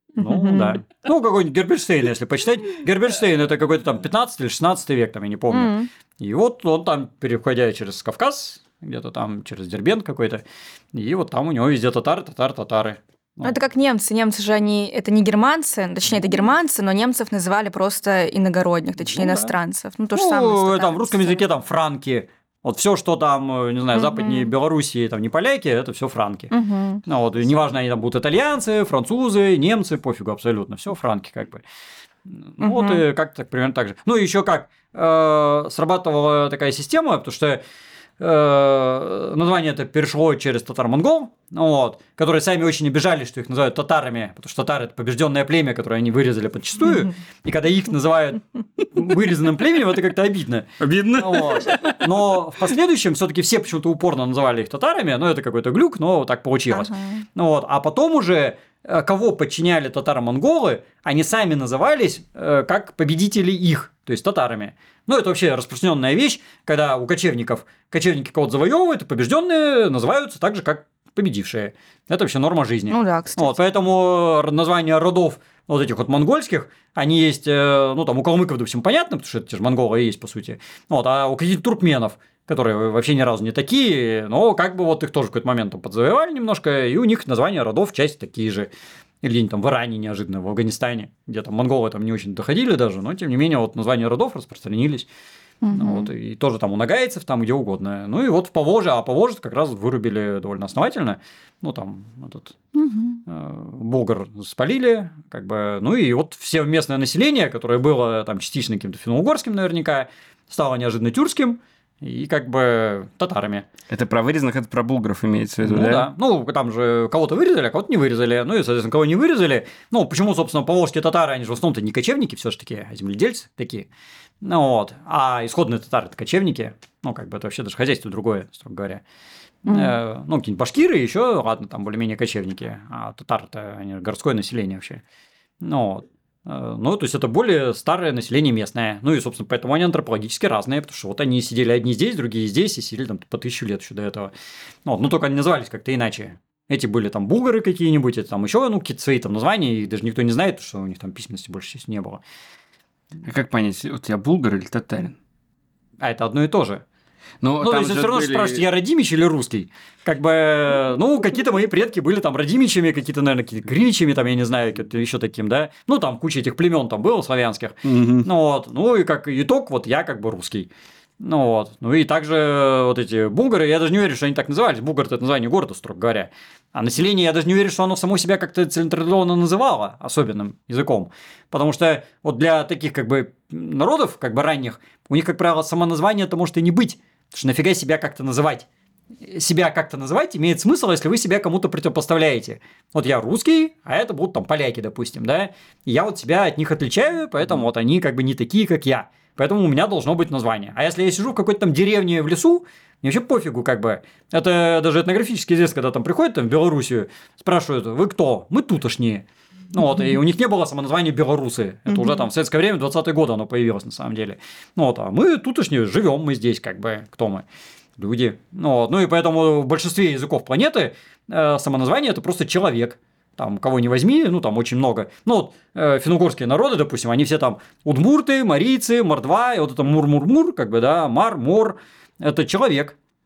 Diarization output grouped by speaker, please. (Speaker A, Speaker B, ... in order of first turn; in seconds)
Speaker A: 0.2-13.6, 19.0-19.5, 20.1-26.5, 27.0-31.6, 32.3-37.6, 38.2-88.7, 89.2-95.1, 95.7-102.5, 103.2-113.7, 115.6-123.9, 124.4-129.0, 129.7-135.0, 135.6-144.3, 144.8-152.2, 156.0-156.8, 157.6-188.7, 189.2-217.4, 218.0-233.0
Speaker B: 0.2-0.8, 5.5-5.9, 13.4-21.4, 23.9-24.5, 26.5-27.0, 32.6-33.0, 56.7-57.2, 72.9-73.5, 95.6-96.1, 102.7-103.2, 129.7-129.9, 211.9-212.2
Speaker C: 50.8-52.4, 113.9-116.1, 153.2-155.2, 157.4-158.6, 167.8-168.3